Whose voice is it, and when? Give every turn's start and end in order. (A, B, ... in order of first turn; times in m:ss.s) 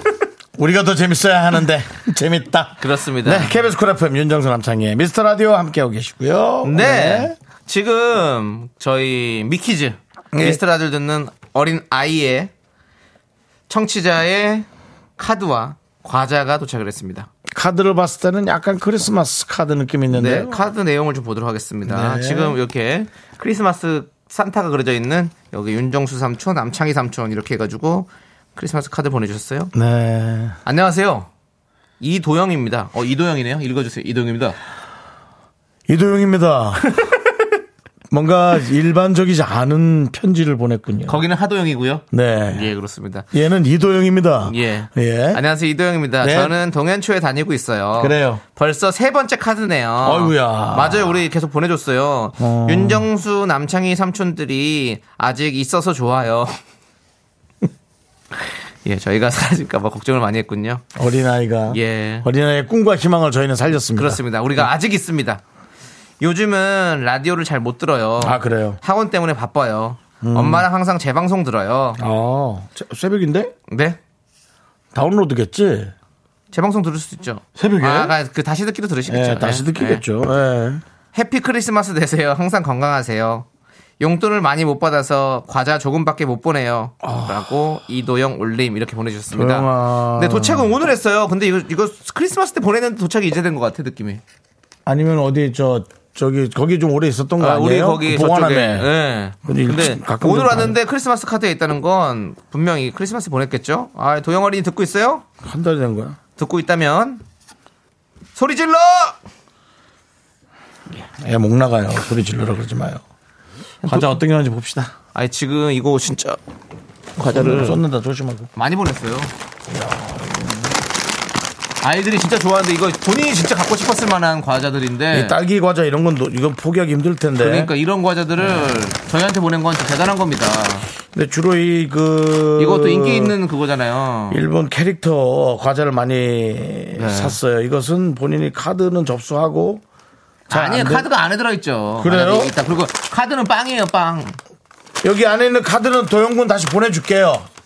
0:00.6-0:07.3 A
0:02.8-0:03.6 B
0:06.6-0:12.5 B
0:10.3-0:10.6 A
0:13.7-0:14.6 B
0:15.2-0:17.3 B
0:17.5-0:20.6 A
0:20.1-0:29.7 B
0:21.9-0:22.6 A
0:29.7-0:30.6 A
0:30.6-0:31.3 B
0:32.0-0:34.6 B
0:35.9-0:37.0 A
0:38.1-0:41.2 A
0:41.1-0:43.2 B
0:42.1-0:42.7 A
0:43.3-0:45.4 A
0:44.4-0:56.5 B
0:46.2-0:46.5 A
0:48.0-0:48.4 A
0:50.0-0:51.2 A
0:52.4-0:53.1 A
0:58.8-1:00.8 B
1:01.0-1:04.6 A
1:01.7-1:02.3 B
1:04.0-1:05.4 B
1:06.2-1:12.0 B
1:08.2-1:08.8 A
1:10.2-1:10.6 A
1:12.0-1:13.5 A
1:13.7-1:14.0 B
1:14.9-1:15.9 A
1:16.5-1:20.0 B
1:17.6-1:18.1 A
1:19.1-1:20.8 A
1:21.1-1:23.4 B
1:24.0-1:34.2 B
1:27.0-1:27.5 A
1:29.3-1:30.7 A
1:34.8-1:38.9 A
1:37.4-1:45.2 B
1:39.4-1:40.8 A
1:45.4-1:46.2 A
1:46.4-1:47.2 B
1:48.4-1:49.2 B
1:51.2-1:53.0 A
1:53.8-1:54.1 B
1:53.8-1:54.9 A
1:55.1-1:56.4 B
1:57.2-1:57.8 B
1:57.2-1:58.5 A
1:58.6-1:59.3 B
1:59.7-2:00.7 A
2:01.8-2:05.4 B
2:05.1-2:07.7 A
2:07.4-2:10.8 B
2:08.4-2:08.7 A
2:11.1-2:13.3 A
2:12.6-2:14.4 B
2:14.3-2:19.8 A
2:17.0-2:17.4 B
2:20.5-2:24.4 B
2:20.5-2:21.1 A
2:22.0-2:22.5 A
2:25.0-2:27.5 A